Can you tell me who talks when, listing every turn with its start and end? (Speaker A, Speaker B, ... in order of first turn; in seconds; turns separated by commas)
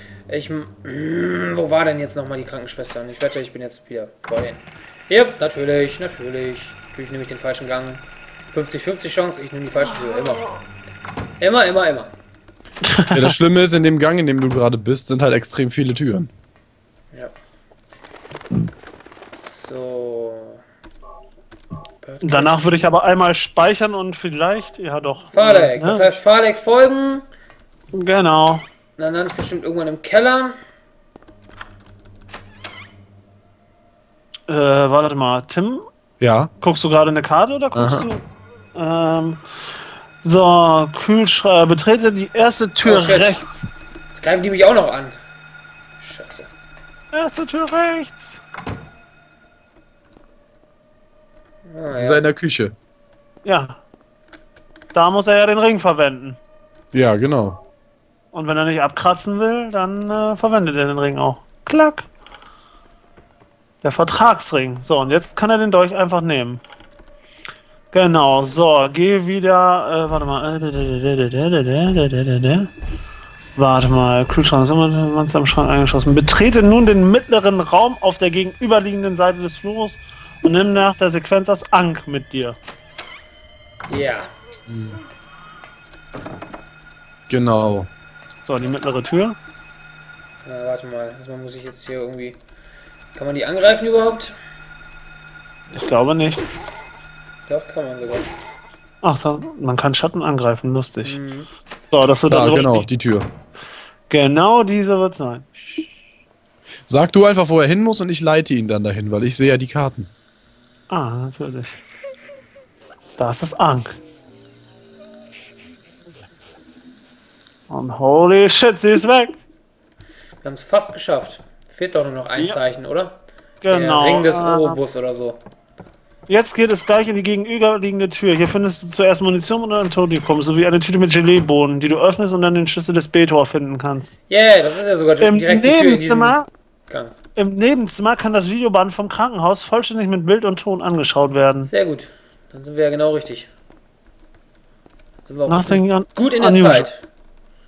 Speaker A: 0.3-10.5, Speaker A: 11.4-12.1, Speaker B: 12.9-13.2, Speaker C: 13.1-16.3, Speaker A: 19.3-20.6, Speaker A: 22.0-22.8, Speaker B: 22.2-26.2, Speaker A: 25.3-27.2, Speaker B: 27.9-28.7, Speaker A: 29.0-30.6, Speaker B: 34.5-35.9, Speaker C: 36.2-36.5, Speaker B: 36.6-38.2, Speaker C: 37.7-38.1, Speaker B: 38.7-39.4, Speaker B: 40.2-43.8, Speaker A: 42.8-43.4, Speaker A: 44.1-45.2, Speaker A: 46.0-46.5, Speaker B: 47.1-48.4, Speaker A: 51.6-52.3, Speaker C: 51.9-52.7, Speaker B: 53.4-53.8, Speaker B: 54.9-56.4, Speaker C: 56.9-57.6, Speaker B: 58.3-62.0, Speaker B: 63.8-66.6, Speaker B: 67.9-72.7, Speaker B: 73.5-82.6, Speaker A: 83.9-84.3, Speaker C: 84.7-85.0, Speaker C: 87.3-87.9, Speaker B: 88.4-89.4, Speaker A: 90.4-92.4, Speaker A: 93.1-94.3, Speaker B: 95.7-96.5, Speaker A: 97.5-98.3, Speaker B: 99.0-101.2, Speaker A: 101.0-101.5, Speaker B: 101.9-102.8, Speaker C: 102.3-103.3, Speaker B: 104.1-105.8, Speaker C: 106.9-110.1, Speaker B: 110.9-111.8, Speaker B: 113.2-114.0, Speaker B: 117.7-119.4, Speaker A: 120.4-125.4, Speaker B: 123.6-124.8, Speaker B: 126.3-134.1, Speaker A: 134.3-137.1, Speaker B: 135.2-136.4, Speaker B: 137.3-141.7, Speaker A: 141.7-143.5, Speaker A: 145.2-147.0, Speaker B: 145.5-146.9